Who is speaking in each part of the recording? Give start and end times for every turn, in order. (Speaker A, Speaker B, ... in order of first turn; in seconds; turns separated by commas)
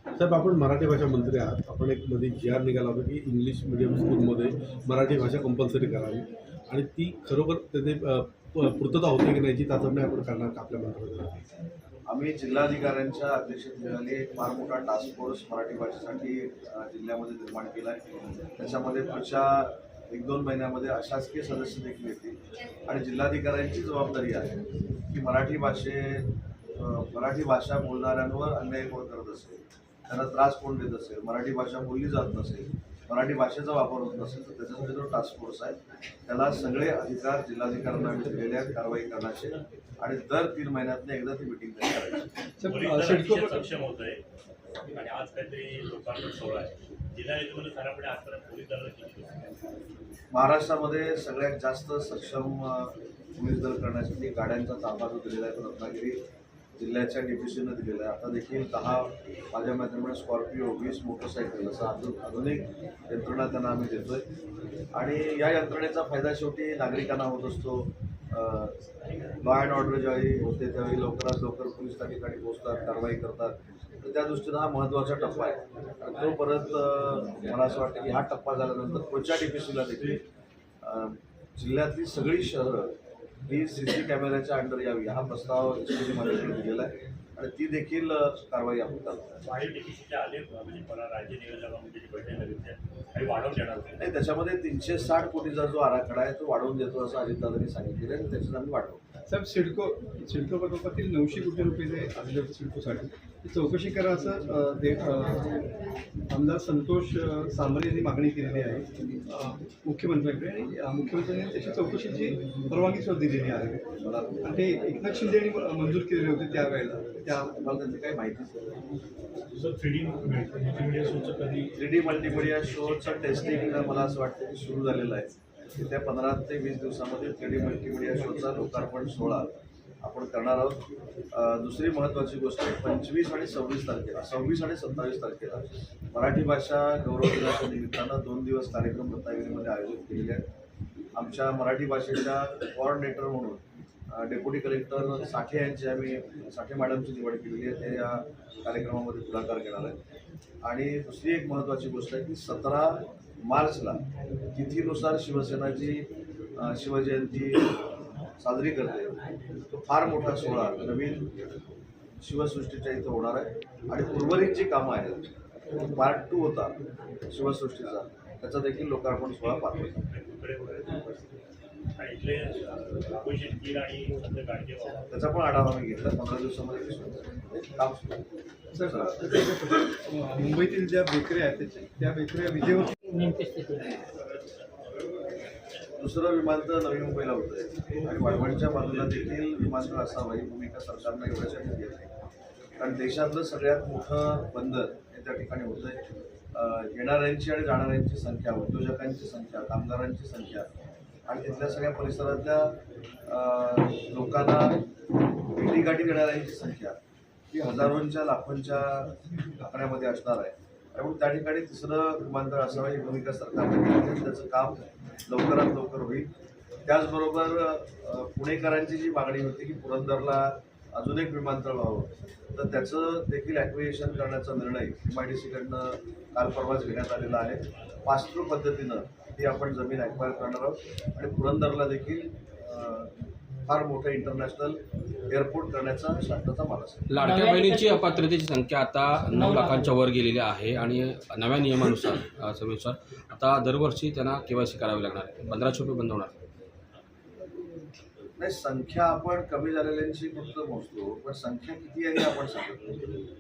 Speaker A: 0.2-11.4, Speaker B: 12.1-18.0, Speaker B: 18.6-22.4, Speaker B: 22.9-42.2, Speaker C: 41.9-44.2, Speaker D: 42.6-43.7, Speaker C: 44.9-49.6, Speaker B: 50.3-56.2, Speaker B: 56.8-64.2, Speaker B: 64.9-68.8, Speaker B: 69.4-80.2, Speaker B: 80.8-82.9, Speaker B: 83.5-89.4, Speaker C: 89.4-94.0, Speaker B: 94.0-99.0, Speaker D: 99.3-105.5, Speaker D: 106.3-113.9, Speaker B: 114.0-114.5, Speaker D: 114.4-117.5, Speaker B: 117.6-118.5, Speaker C: 119.6-121.6, Speaker B: 121.7-130.8, Speaker C: 122.2-123.4, Speaker B: 131.3-140.4, Speaker B: 141.1-150.0, Speaker B: 150.6-154.0, Speaker B: 154.5-157.7, Speaker B: 158.4-159.2, Speaker B: 159.7-161.2, Speaker B: 162.2-166.8, Speaker B: 167.3-169.9, Speaker C: 169.5-171.2, Speaker C: 172.0-175.1, Speaker B: 175.1-178.2, Speaker D: 178.7-182.9, Speaker B: 178.8-179.1, Speaker E: 183.1-184.0, Speaker B: 186.0-192.1, Speaker B: 192.8-196.0, Speaker B: 196.5-200.7, Speaker B: 201.3-204.8, Speaker B: 205.6-207.0, Speaker B: 207.5-216.3, Speaker B: 216.9-233.1, Speaker B: 233.7-234.8, Speaker B: 235.3-237.0, Speaker F: 237.1-246.3, Speaker E: 237.2-238.1, Speaker E: 239.2-239.9, Speaker B: 248.4-252.8